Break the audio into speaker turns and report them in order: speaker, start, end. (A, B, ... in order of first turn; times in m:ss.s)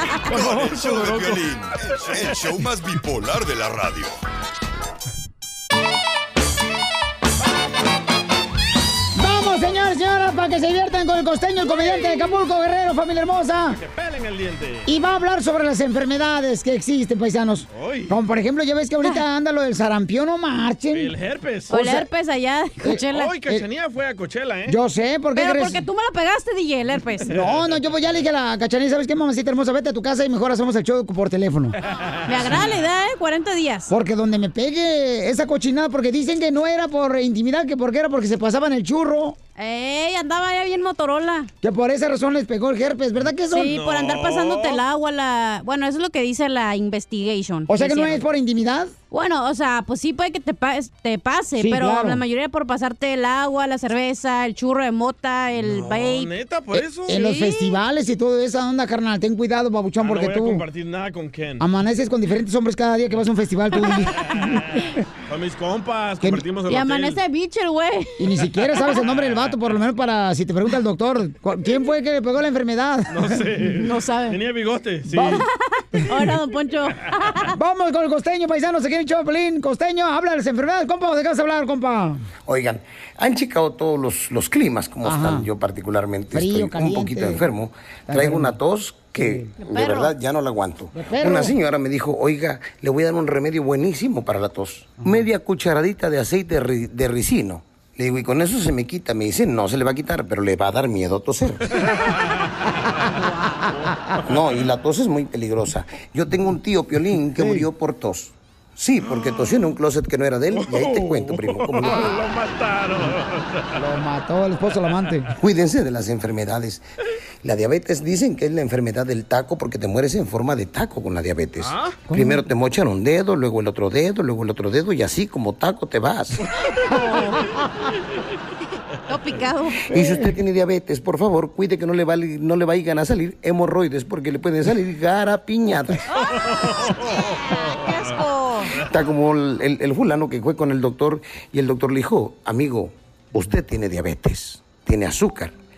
0:00.2-0:04.2 A
0:00.2-0:01.5 B
0:02.0-0:02.4 B
0:09.1-0:13.8 C
0:11.7-0:12.0 D
0:13.7-0:14.9 B
0:14.8-0:21.1 C
0:17.7-0:18.1 B
0:20.9-0:21.8 B
0:21.7-0:23.3 D
0:21.7-0:22.1 C
0:22.8-0:23.6 C
0:23.1-0:24.8 B
0:24.7-0:25.8 C
0:25.4-0:27.3 D
0:27.3-0:31.8 C
0:27.3-0:27.8 B
0:32.3-0:33.9 D
0:33.9-0:39.4 C
0:39.6-0:41.5 D
0:41.6-0:43.8 C
0:43.5-0:48.2 D
0:43.6-0:44.8 B
0:47.7-0:48.9 C
0:49.1-0:56.3 D
0:51.6-0:52.2 C
0:55.6-0:57.2 B
0:56.7-1:00.6 C
0:57.1-0:57.8 D
1:00.0-1:01.6 B
1:01.6-1:04.8 C
1:05.3-1:07.2 B
1:06.7-1:08.2 D
1:08.2-1:13.4 C
1:09.0-1:09.7 B
1:13.1-1:15.4 B
1:13.8-1:14.4 D
1:15.1-1:15.4 C
1:15.2-1:17.5 D
1:17.5-1:22.2 C
1:22.4-1:41.8 E
1:25.0-1:25.5 C
1:26.3-1:27.4 C
1:28.1-1:28.6 C
1:29.2-1:29.5 C
1:29.6-1:30.1 D
1:30.9-1:31.5 C
1:43.1-1:43.7 D
1:44.2-1:52.1 E
1:47.4-1:47.7 C
1:49.0-1:49.6 B
1:50.5-1:53.8 B
1:51.8-1:52.2 C
1:53.7-1:55.3 C
1:55.4-1:56.8 E
1:57.4-2:06.4 E
2:01.6-2:02.0 B
2:02.1-2:02.4 C
2:06.8-2:07.4 D
2:09.1-2:09.9 D
2:09.9-2:16.0 E
2:09.9-2:10.3 C
2:16.1-2:18.8 D
2:16.4-2:18.1 B
2:18.9-2:25.5 E